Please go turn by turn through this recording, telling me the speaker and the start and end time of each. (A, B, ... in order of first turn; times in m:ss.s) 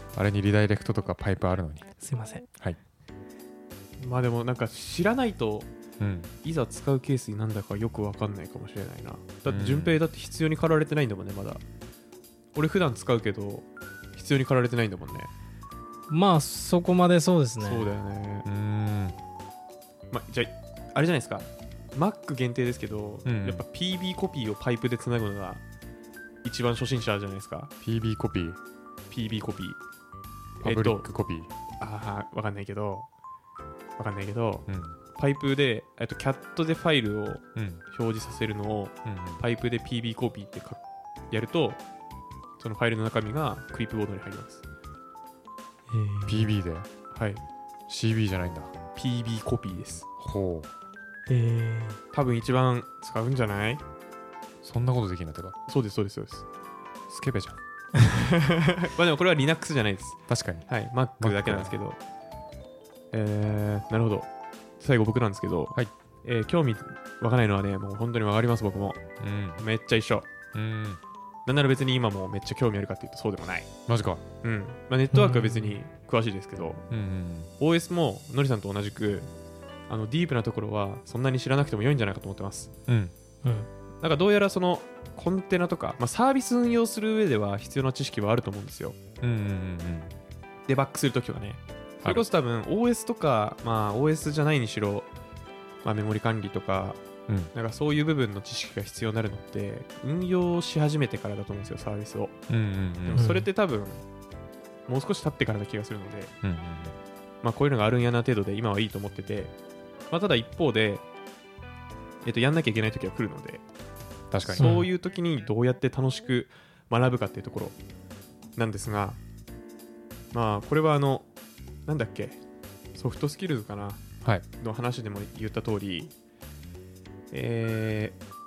0:00.1-0:01.9 A
0:02.0-0:02.4 B
0:04.0-0:05.7 C
0:06.0-0:06.3 A
0:06.4-0:11.6 C
0:09.5-0:10.0 A
0:12.5-0:15.3 C
0:16.1-0:17.9 B
0:17.6-0:18.4 C
0:18.4-0:19.2 A
0:20.1-0:25.6 C
0:23.2-0:23.6 A
0:26.4-0:27.7 C
0:27.8-0:28.6 A
0:29.1-0:29.8 C
0:30.6-0:31.1 C
0:30.6-0:31.5 A
0:31.8-0:33.1 C
0:34.0-0:34.6 C
0:34.7-0:35.0 A
0:35.2-0:41.8 C
0:37.6-0:37.8 A
0:39.0-0:39.4 A
0:42.6-0:44.6 C
0:45.9-0:46.5 B
0:46.3-0:46.9 A
0:47.1-0:47.4 C
0:47.9-0:48.7 A
0:49.0-0:50.1 C
0:50.2-0:50.7 A
0:51.3-0:52.0 B
0:52.1-0:53.8 C
0:54.6-0:55.6 A
0:55.7-0:56.4 C
0:57.1-0:57.6 A
0:58.1-1:02.0 C
1:00.3-1:00.7 A
1:01.2-1:01.7 A
1:03.1-1:04.3 C
1:04.8-1:09.0 C
1:09.2-1:09.6 A
1:09.6-1:10.3 C
1:10.5-1:11.0 A
1:11.4-1:13.7 C
1:13.9-1:14.2 A
1:14.4-1:16.8 C
1:15.1-1:15.8 B
1:16.9-1:17.5 A
1:17.6-1:19.3 C
1:19.9-1:22.7 C
1:22.9-1:23.1 A
1:24.0-1:29.0 C
1:29.2-1:30.1 A
1:30.7-1:35.1 C
1:35.8-1:37.0 C
1:37.5-1:42.3 C
1:42.5-1:43.2 A
1:43.0-1:44.0 C
1:43.1-1:43.5 B
1:44.9-1:46.3 C
1:46.4-1:46.9 A
1:47.4-1:49.5 C
1:50.1-1:51.0 C
1:52.2-1:53.6 C
1:54.3-1:54.8 A
1:54.5-1:57.8 C
1:54.6-1:54.9 B
1:58.6-1:59.2 C
2:00.3-2:01.3 C
2:01.8-2:02.4 C
2:02.9-2:04.0 C
2:04.6-2:06.1 C
2:07.3-2:08.2 C